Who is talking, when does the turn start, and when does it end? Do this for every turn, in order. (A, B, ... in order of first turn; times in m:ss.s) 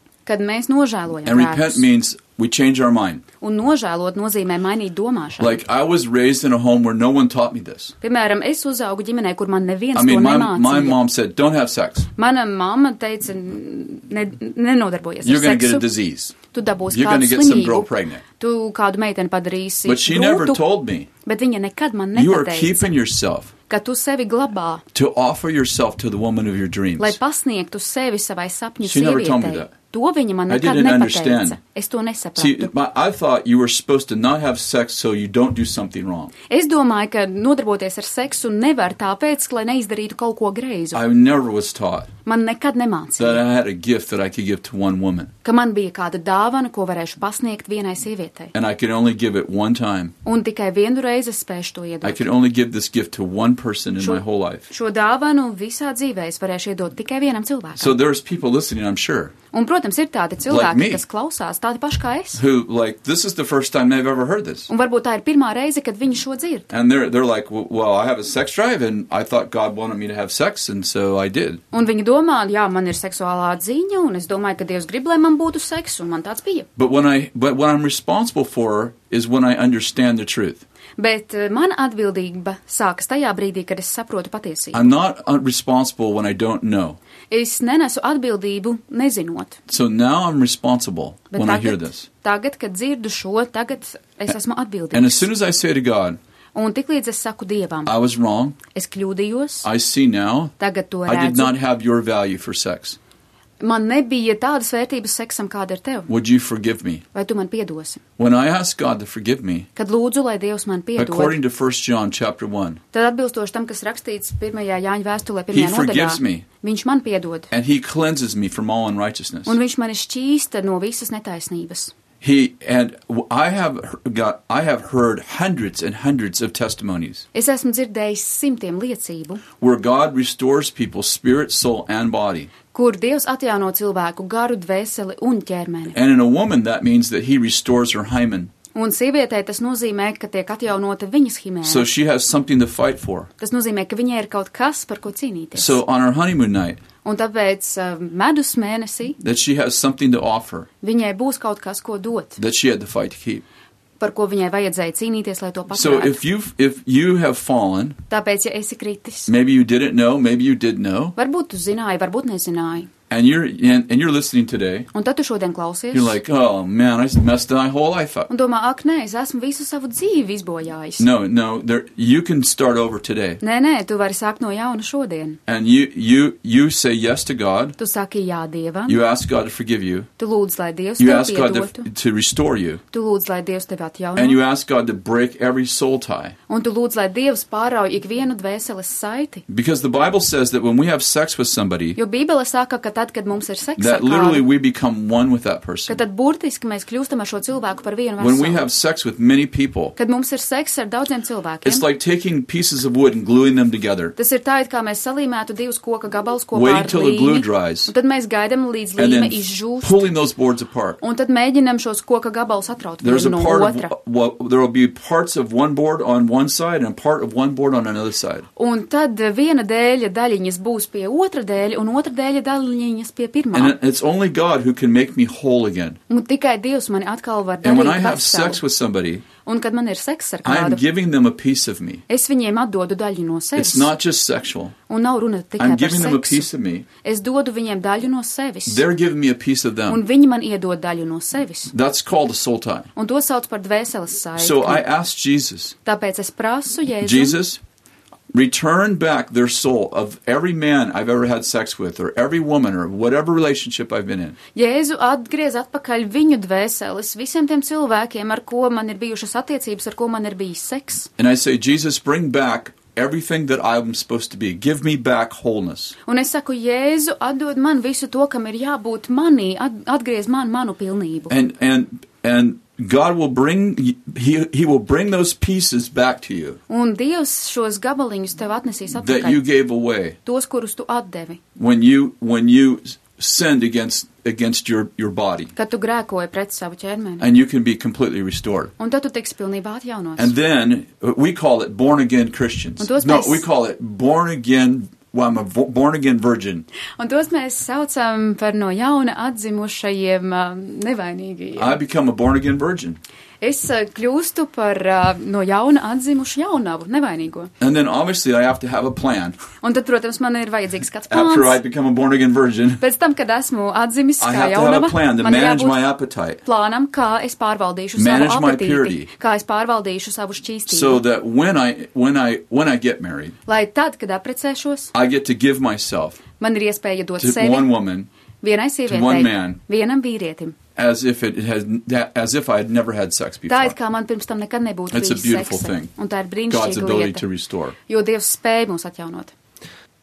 0:00.2-0:01.8 A
0:01.2-0:03.2 B
0:03.4-0:05.6 A
0:05.4-0:07.9 B
0:08.0-0:11.0 A
0:09.9-0:12.1 B
0:12.2-0:15.8 A
0:15.2-0:16.4 B
0:16.5-0:20.6 A
0:16.9-0:18.2 B
0:19.8-0:21.1 B
0:21.2-0:22.9 A
0:22.1-0:23.5 B
0:23.7-0:24.8 A
0:24.9-0:27.2 B
0:27.0-0:32.7 A
0:28.8-0:29.7 B
0:30.5-0:31.6 B
0:32.4-0:36.3 B
0:36.5-0:41.0 A
0:40.9-0:42.1 B
0:42.2-0:43.4 A
0:43.2-0:45.3 B
0:45.4-0:48.5 A
0:48.5-0:50.1 B
0:50.2-0:52.3 A
0:52.0-0:54.6 B
0:54.0-0:58.0 A
0:57.8-0:59.3 B
0:59.5-1:02.4 A
1:00.5-1:01.0 B
1:02.4-1:04.7 B
1:04.7-1:06.7 A
1:06.7-1:11.6 B
1:11.7-1:16.7 A
1:16.8-1:20.6 B
1:21.0-1:24.9 A
1:24.7-1:27.0 B
1:27.3-1:29.6 A
1:29.7-1:32.1 B
1:31.3-1:35.2 A
1:34.9-1:36.2 B
1:36.5-1:37.9 A
1:37.8-1:38.6 B
1:38.7-1:39.7 A
1:39.6-1:40.5 B
1:40.6-1:41.5 A
1:41.1-1:43.0 B
1:43.6-1:46.1 A
1:46.1-1:47.0 B
1:47.1-1:48.0 A
1:48.2-1:49.7 B
1:49.8-1:51.4 A
1:51.0-1:52.8 B
1:52.9-1:57.5 A
1:55.5-1:56.4 B
1:57.5-1:59.5 B
1:59.4-2:01.9 A
2:02.2-2:07.2 B
2:07.3-2:09.4 A
2:09.6-2:12.5 B
2:12.7-2:16.0 A
2:15.9-2:18.5 B
2:18.7-2:21.9 A
2:21.6-2:23.3 B
2:23.4-2:25.8 A
2:25.5-2:26.8 B
2:27.0-2:29.2 A
2:29.2-2:30.7 B
2:30.8-2:32.4 A
2:32.4-2:33.4 B
2:34.0-2:36.2 A
2:35.7-2:38.0 B
2:38.1-2:39.3 A
2:39.3-2:41.1 B
2:41.2-2:42.9 A
2:43.1-2:44.9 B
2:44.9-2:46.2 A
2:45.9-2:48.3 B
2:48.3-2:51.0 A
2:51.0-2:53.4 B
2:53.4-2:55.4 A
2:55.5-2:57.8 B
2:57.8-2:59.0 A
2:58.9-3:00.1 B
3:00.2-3:01.9 A
3:01.0-3:02.8 B
3:02.9-3:04.4 A
3:04.2-3:06.4 B
3:06.5-3:09.4 A
3:09.5-3:12.0 B
3:12.0-3:14.4 A
3:13.8-3:16.0 B
3:15.9-3:18.6 A
3:18.2-3:19.9 B
3:20.0-3:21.8 A
3:21.6-3:24.2 B
3:24.2-3:30.0 A
3:26.5-3:27.9 B
3:29.0-3:31.0 B
3:31.0-3:33.9 A
3:33.0-3:38.5 B
3:38.6-3:43.8 A
3:43.5-3:46.0 B
3:46.1-3:48.6 A
3:47.6-3:49.2 B
3:49.4-3:50.8 A
3:50.4-3:52.0 B
3:52.1-3:53.9 A
3:53.6-3:54.7 B
3:54.9-3:56.4 A
3:55.6-3:56.9 B
3:57.0-3:58.8 A
3:58.7-4:00.0 B
3:59.9-4:01.7 A
4:01.7-4:02.9 B
4:03.0-4:04.8 A
4:04.4-4:05.7 B
4:05.8-4:07.4 A
4:07.0-4:07.6 B
4:08.3-4:14.4 B
4:14.5-4:21.1 A
4:21.2-4:26.0 B
4:26.0-4:31.3 A
4:31.3-4:36.6 B
4:36.7-4:39.4 A
4:38.9-4:40.2 B
4:40.2-4:41.4 A
4:41.6-4:45.5 B
4:45.5-4:47.2 A
4:47.2-4:48.7 B
4:48.8-4:50.3 A
4:50.2-4:56.6 B
4:52.8-4:53.4 A
4:57.0-5:01.8 A
5:01.6-5:03.0 B
5:03.4-5:07.5 A
5:07.6-5:09.4 B
5:09.6-5:11.6 A
5:11.1-5:12.8 B
5:12.8-5:15.8 A
5:14.2-5:16.4 B
5:16.4-5:21.0 A
5:18.0-5:19.1 B
5:20.7-5:23.4 B
5:23.5-5:24.9 A
5:24.9-5:26.2 B
5:26.4-5:27.7 A
5:27.2-5:28.1 B
5:28.4-5:30.6 A
5:28.9-5:29.6 B
5:30.8-5:33.7 B
5:33.5-5:37.2 A
5:34.9-5:35.9 B
5:36.5-5:37.8 B
5:37.9-5:39.3 A